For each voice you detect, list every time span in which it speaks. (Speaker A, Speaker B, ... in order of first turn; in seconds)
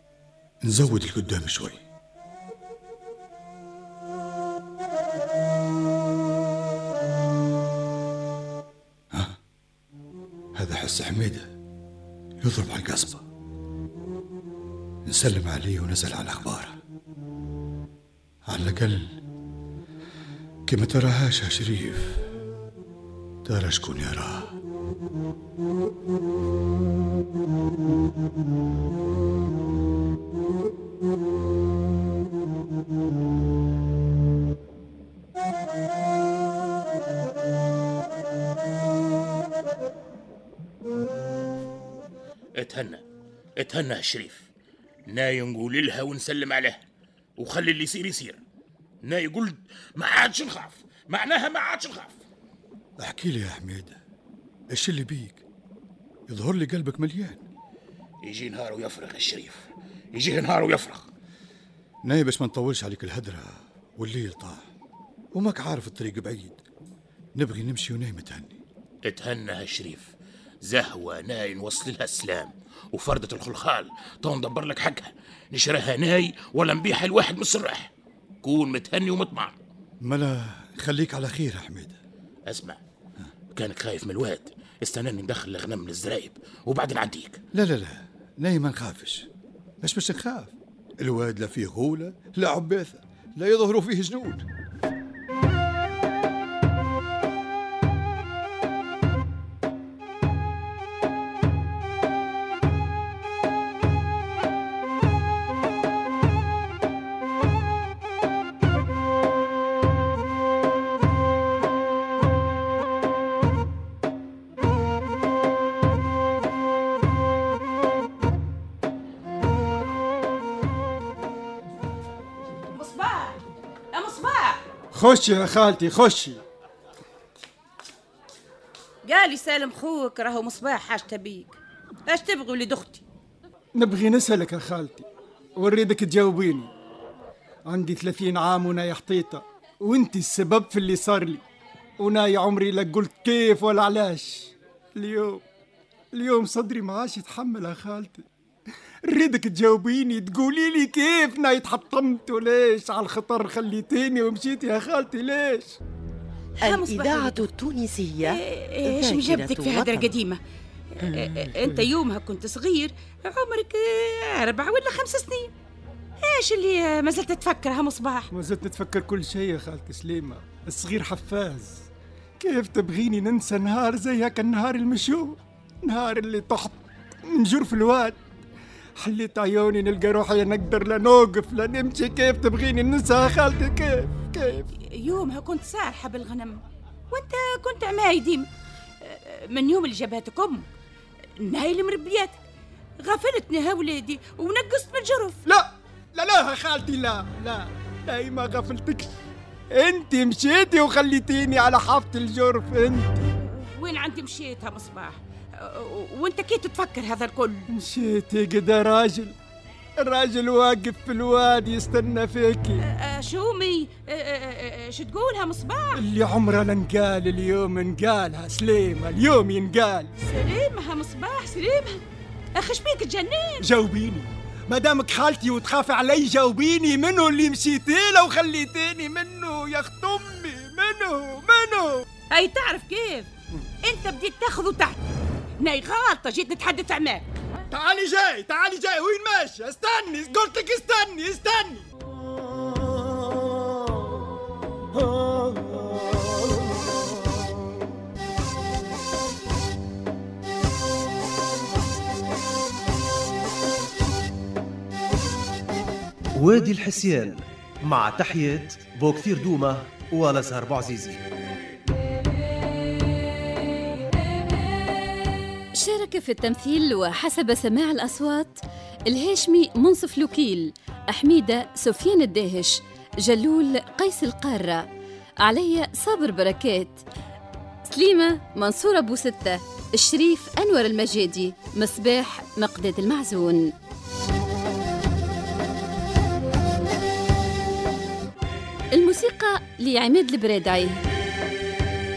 Speaker A: 0.6-1.8, 10.6-11.5, 12.4-13.2, 15.1-16.8, 18.5-19.1, 20.7-22.2, 23.4-24.5, 53.0-54.0, 54.7-55.4, 56.3-57.4, 62.0-64.7, 65.4-66.6, 67.4-68.6, 80.0-82.0, 87.5-89.3, 89.8-94.5
Speaker B: 42.6-43.0, 43.6-44.5, 45.1-46.8, 47.4-48.4, 49.0-52.2, 58.2-61.1, 69.1-70.1, 70.7-77.9, 78.4-79.5, 82.5-82.8, 83.6-87.4
Speaker C: 122.7-123.4, 123.9-124.6, 129.1-133.0, 156.6-157.5, 158.2-160.4, 160.9-165.5, 166.2-168.3, 184.9-188.5, 189.0-190.7, 191.4-192.4, 193.0-195.4, 203.4-207.7, 212.9-216.0, 220.2-222.0, 222.6-223.7, 232.3-233.3, 233.8-235.0, 235.6-237.3
Speaker D: 124.9-126.4, 133.8-136.7, 137.7-141.4, 142.0-145.4, 146.1-148.2, 149.1-155.8, 161.0-161.9, 168.3-171.8, 172.4-178.2, 179.0-184.7, 195.5-199.1, 199.7-203.2, 207.7-209.3, 210.0-212.8, 216.0-220.1, 223.6-232.1, 237.7-241.9
Speaker E: 156.6-160.1
Speaker F: 256.4-261.2
Speaker G: 265.8-274.9, 275.4-277.0, 277.9-283.7, 288.9-291.0